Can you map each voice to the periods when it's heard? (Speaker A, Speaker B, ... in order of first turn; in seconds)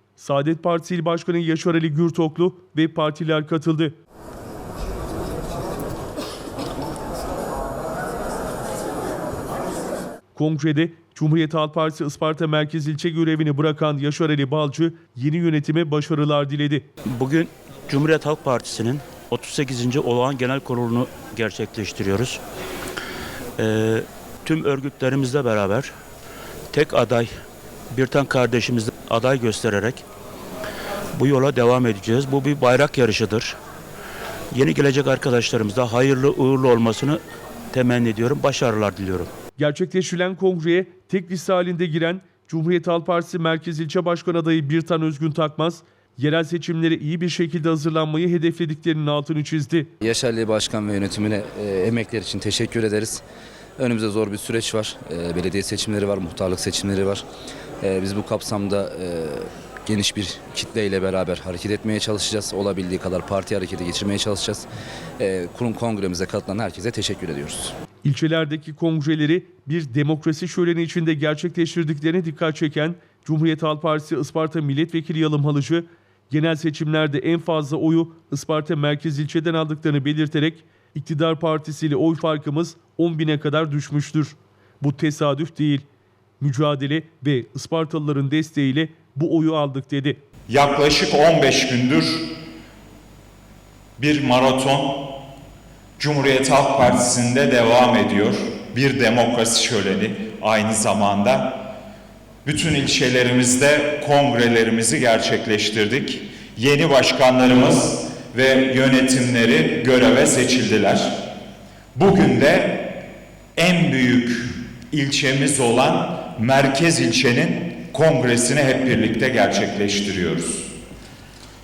Speaker A: 0.2-3.9, 10.3-16.9, 39.6-49.9, 68.0-85.8, 86.4-90.2
Speaker B: 17.1-22.4, 23.6-25.9, 26.7-27.3, 27.9-30.0, 31.1-33.5, 34.5-37.2, 37.7-39.3
Speaker C: 50.0-53.2, 53.8-57.2, 57.8-64.7, 65.2-67.7
Speaker D: 90.5-92.3, 94.0-95.1, 96.0-101.5, 102.4-111.1, 111.9-112.9, 113.5-120.7